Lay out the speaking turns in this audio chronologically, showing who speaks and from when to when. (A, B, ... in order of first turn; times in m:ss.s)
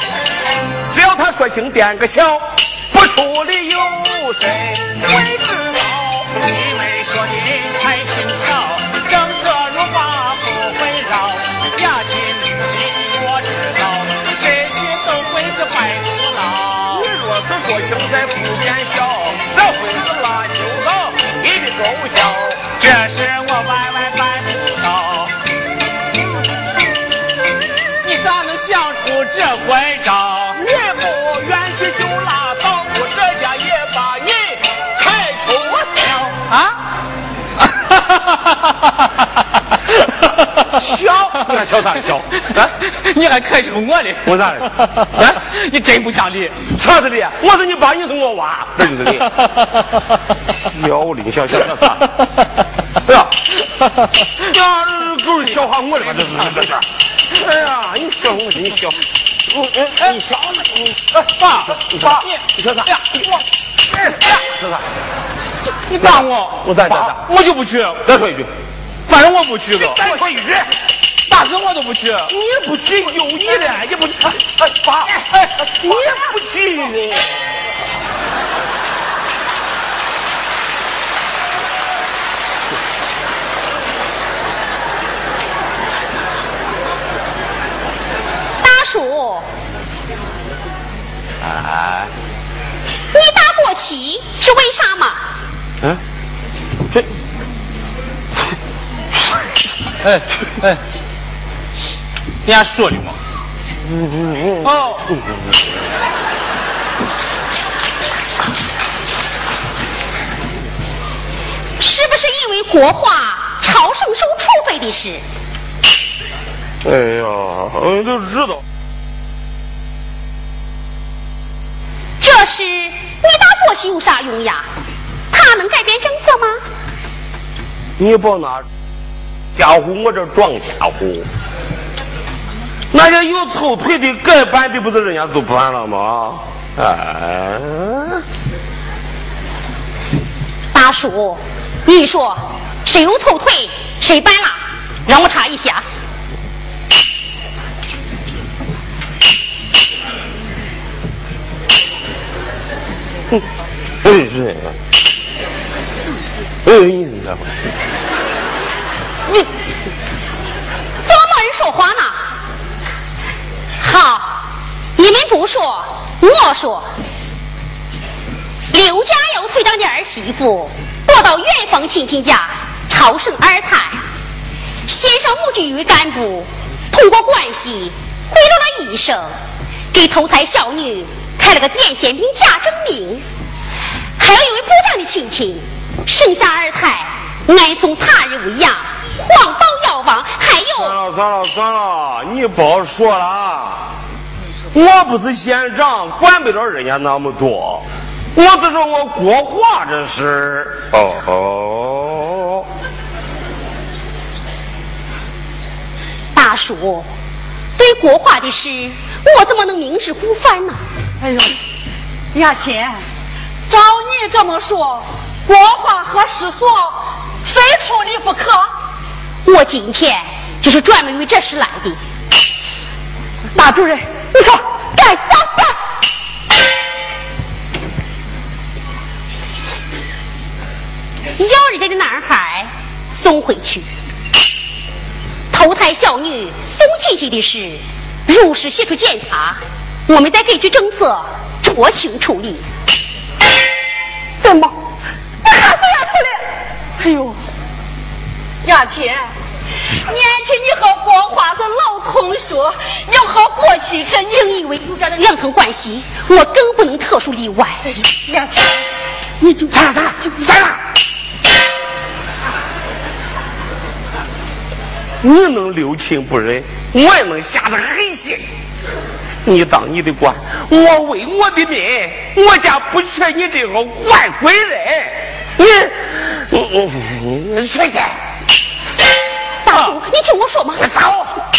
0:00.9-0:05.1 A
0:05.1-0:17.1 B
0:16.9-0:22.6 A
0:22.8-0:25.3 B
0:28.0-0:30.6 B
0:30.5-0:36.4 A
0:36.4-0:36.8 B
0:37.6-0:39.1 B
0:40.8-0:41.8 B
0:40.8-0:42.7 A
0:42.8-0:46.6 B
0:44.2-0:45.4 A
0:46.7-0:49.3 A
0:49.2-0:50.0 B
0:50.5-0:52.0 A
0:53.0-0:53.4 A
0:54.5-1:01.0 A
1:01.1-1:03.3 B
1:01.9-1:02.9 A
1:04.1-1:04.8 A
1:05.8-1:08.0 B
1:06.0-1:07.2 A
1:08.0-1:08.5 A
1:09.1-1:10.3 B
1:09.7-1:10.7 A
1:11.3-1:12.3 B
1:12.3-1:17.5 A
1:13.3-1:13.9 B
1:15.1-1:16.0 B
1:28.6-1:29.5 C
1:31.4-1:32.1 A
1:33.1-1:35.2 C
1:40.0-1:40.8 B
1:42.4-1:43.2 B
1:43.9-1:44.7 A
1:44.6-1:45.1 B
1:51.8-1:55.2 C
1:56.8-1:58.6 A
2:02.2-2:04.6 C
2:05.3-2:06.6 C
2:08.0-2:08.6 A
2:09.6-2:11.3 A
2:12.9-2:18.2 A
2:20.7-2:25.8 C
2:34.0-2:34.7 A
2:36.6-2:37.5 A
2:41.0-2:42.2 C
2:43.8-2:44.4 C
2:45.0-2:46.9 C
2:48.7-2:54.0 C
2:54.9-2:59.3 C
2:59.9-3:03.2 C
3:04.2-3:11.0 C
3:10.7-3:13.9 A
3:14.7-3:22.6 A
3:26.3-3:27.1 C
3:27.8-3:30.8 C
3:31.2-3:31.6 D
3:32.3-3:33.0 D
3:33.7-3:38.7 D
3:39.4-3:42.0 C
3:43.5-3:45.8 E
3:51.4-3:53.8 C
3:55.5-4:02.6 C
4:04.4-4:04.8 E
4:05.4-4:06.4 E
4:07.0-4:07.4 D
4:08.6-4:09.3 D
4:09.9-4:14.4 D
4:14.3-4:17.8 C
4:18.0-4:18.8 D
4:19.4-4:19.7 D
4:19.7-4:20.8 A
4:25.2-4:28.4 A
4:29.4-4:38.2 A
4:39.6-4:40.9 C
4:39.7-4:40.0 B
4:40.8-4:41.3 A